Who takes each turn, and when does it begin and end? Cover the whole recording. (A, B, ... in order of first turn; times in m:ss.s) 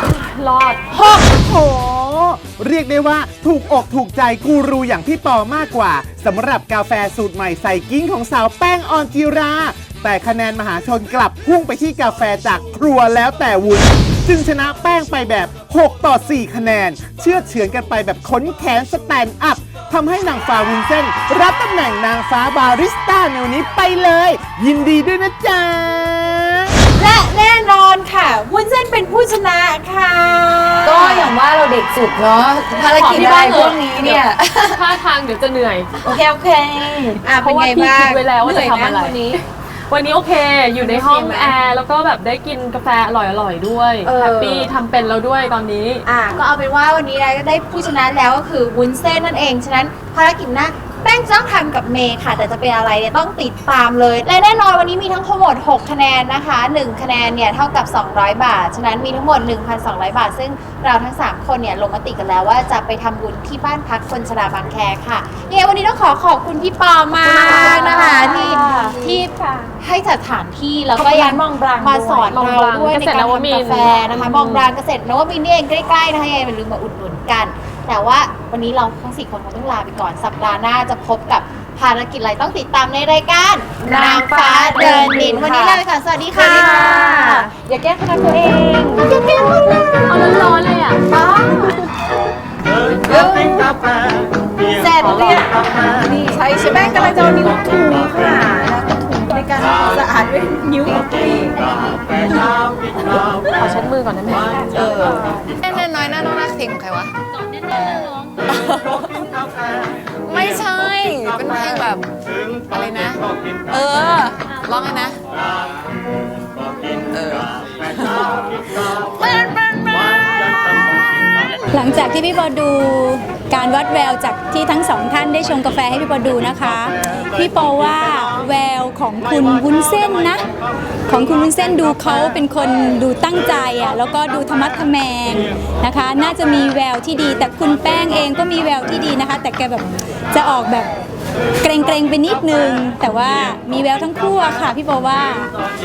0:00.2-0:00.8 A
0:00.9-0:01.2 B
0:00.9-0:26.8 C
0:26.9-0:31.4 B
0:30.8-0:34.7 D
0:32.8-0:35.9 A
0:33.2-0:34.2 B
0:36.0-0:39.4 B
0:36.1-0:37.2 D
0:37.4-0:46.0 A
0:40.9-0:41.5 B
0:44.0-0:44.7 B
0:44.2-0:44.6 D
0:46.0-1:30.5 B
1:07.3-1:09.1 A
1:07.3-1:09.0 D
1:11.0-1:12.3 D
1:12.3-1:14.7 A
1:23.9-1:25.8 D
1:23.9-1:25.4 A
1:26.4-1:27.5 D
1:26.4-1:27.1 A
1:30.1-1:31.0 A
1:31.1-1:31.8 B
1:33.1-1:33.8 B
1:34.8-1:42.4 B
1:34.8-1:35.5 A
1:43.5-1:45.0 A
1:44.8-1:45.2 B
1:44.8-1:47.1 D
1:47.4-1:48.4 B
1:48.6-1:49.0 D
1:50.3-1:52.0 D
1:52.7-1:55.2 D
1:57.1-1:57.5 D
1:59.2-2:00.3 B
2:01.7-2:10.5 E
2:11.1-2:20.9 E
2:21.6-2:25.5 E